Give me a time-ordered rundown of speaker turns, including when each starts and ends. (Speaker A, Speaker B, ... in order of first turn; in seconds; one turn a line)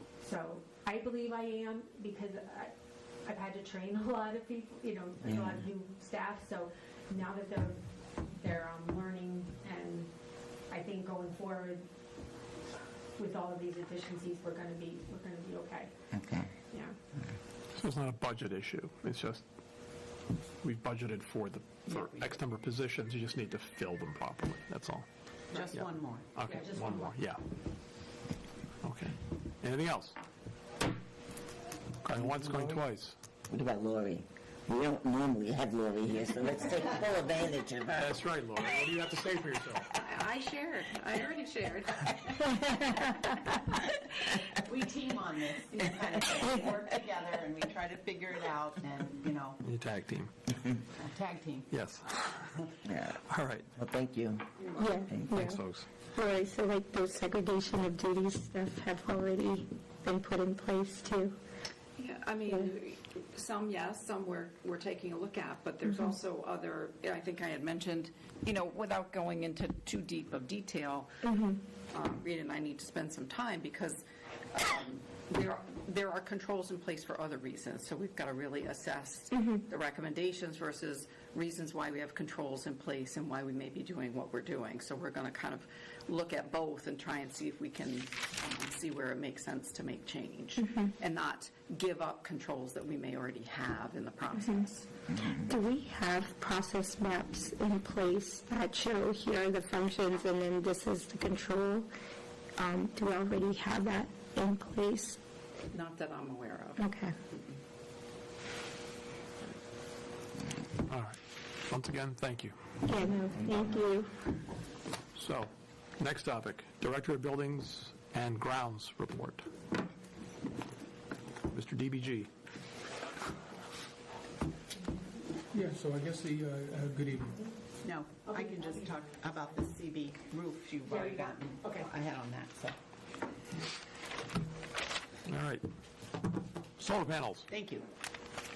Speaker A: 0.2-10.1
Speaker B: 5.2-5.6
Speaker A: 10.7-11.9
Speaker A: 13.2-16.0
Speaker B: 16.1-16.5
Speaker A: 16.7-17.0
Speaker C: 17.8-19.4
Speaker C: 20.6-25.1
Speaker D: 25.5-26.2
Speaker C: 25.6-27.4
Speaker A: 26.4-27.1
Speaker C: 28.8-30.2
Speaker C: 32.0-33.1
Speaker E: 32.2-32.8
Speaker B: 33.5-38.2
Speaker C: 38.0-39.8
Speaker F: 40.0-43.9
Speaker D: 44.7-49.6
Speaker C: 49.6-50.3
Speaker D: 51.0-51.7
Speaker C: 51.7-52.6
Speaker B: 52.9-53.2
Speaker C: 53.2-53.7
Speaker B: 53.8-54.4
Speaker G: 54.8-55.6
Speaker C: 55.2-55.9
Speaker G: 56.1-61.4
Speaker F: 62.0-71.2
Speaker G: 71.2-71.6
Speaker F: 71.9-94.9
Speaker G: 79.3-79.6
Speaker G: 90.6-90.9
Speaker G: 95.5-101.9
Speaker G: 102.6-105.2
Speaker F: 105.7-106.9
Speaker G: 106.8-107.1
Speaker C: 110.9-111.2
Speaker C: 111.7-112.5
Speaker G: 112.9-114.1
Speaker C: 115.1-119.5
Speaker C: 121.5-122.3
Speaker E: 125.5-127.4
Speaker D: 127.8-132.8
Speaker A: 128.1-129.8
Speaker A: 130.8-131.9
Speaker C: 135.3-135.6
Speaker C: 136.8-137.5
Speaker D: 137.5-137.9